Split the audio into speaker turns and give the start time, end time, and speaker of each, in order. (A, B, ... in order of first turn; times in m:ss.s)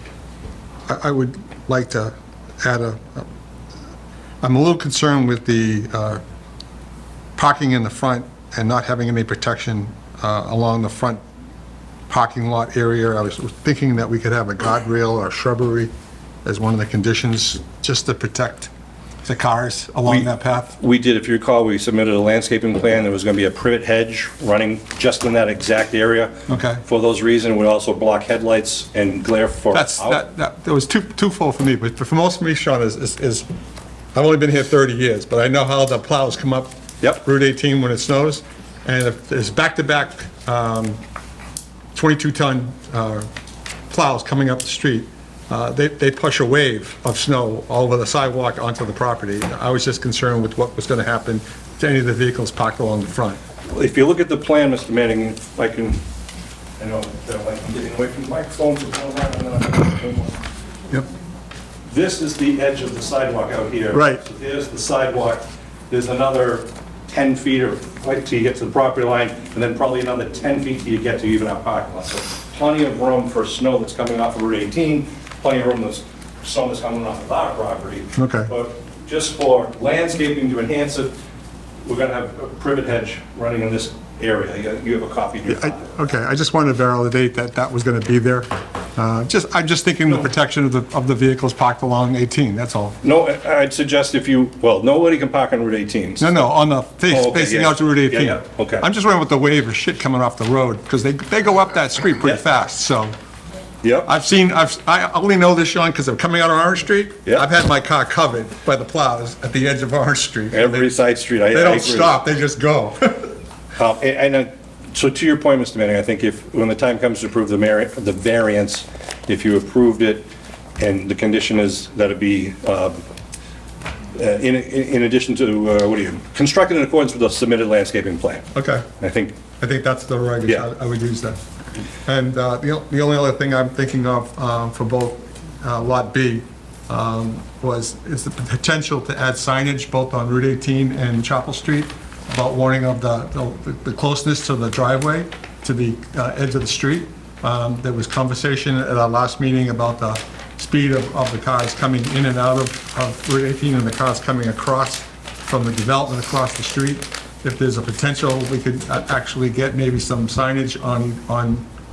0:00.9-0:03.3 A
0:04.4-0:06.2 A
0:07.4-0:11.2 A
0:12.1-0:15.9 A
0:16.4-0:18.7 A
0:19.2-0:20.8 A
0:20.1-0:30.2 B
0:26.5-0:26.8 A
0:29.7-0:33.5 A
0:34.1-0:41.0 A
0:41.9-0:43.3 A
0:43.9-0:53.4 A
0:53.7-0:56.0 B
0:56.8-1:00.4 B
1:01.9-1:21.1 B
1:03.9-1:04.2 A
1:18.2-1:18.5 A
1:21.8-1:26.0 B
1:25.5-1:33.0 A
1:33.0-1:36.4 B
1:36.2-1:43.2 A
1:37.1-1:38.8 B
1:43.8-1:44.1 B
1:44.0-1:51.0 A
1:50.5-1:52.2 B
1:51.5-1:53.3 A
1:53.8-2:03.0 B
2:04.2-2:08.5 B
2:08.5-2:08.9 A
2:09.0-2:09.4 B
2:09.6-2:11.4 A
2:12.1-2:41.7 A